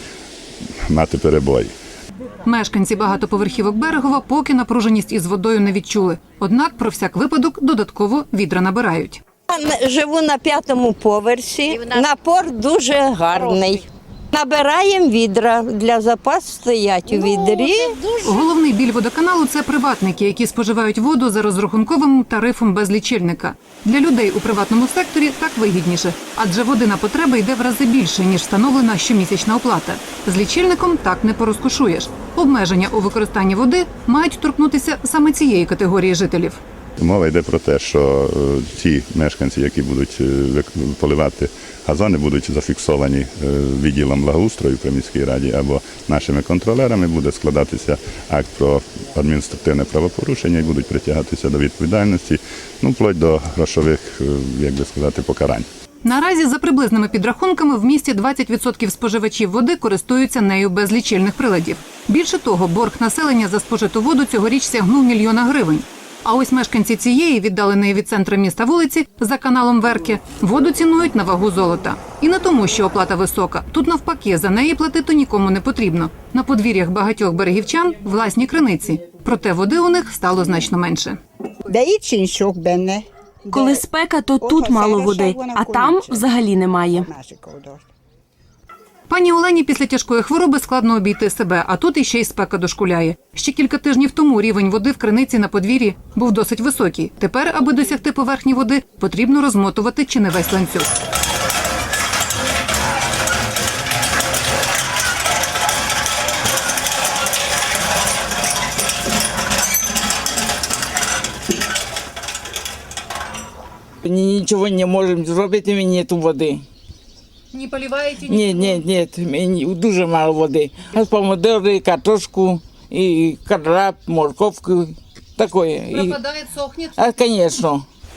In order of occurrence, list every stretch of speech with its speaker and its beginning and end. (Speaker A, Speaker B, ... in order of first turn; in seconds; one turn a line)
Speaker A: 0.9-1.7
Speaker B: 2.4-9.2
Speaker C: 9.5-18.4
Speaker B: 18.2-36.6
Speaker A: 37.0-55.6
Speaker B: 56.0-81.2
Speaker D: 81.7-83.8
Speaker E: 83.5-87.1
Speaker D: 84.4-86.3
Speaker D: 86.9-87.9
Speaker B: 89.1-100.9
Speaker F: 114.0-116.6
Speaker B: 117.5-118.8
Speaker F: 118.2-126.2
Speaker B: 125.9-127.1
Speaker F: 127.0-127.8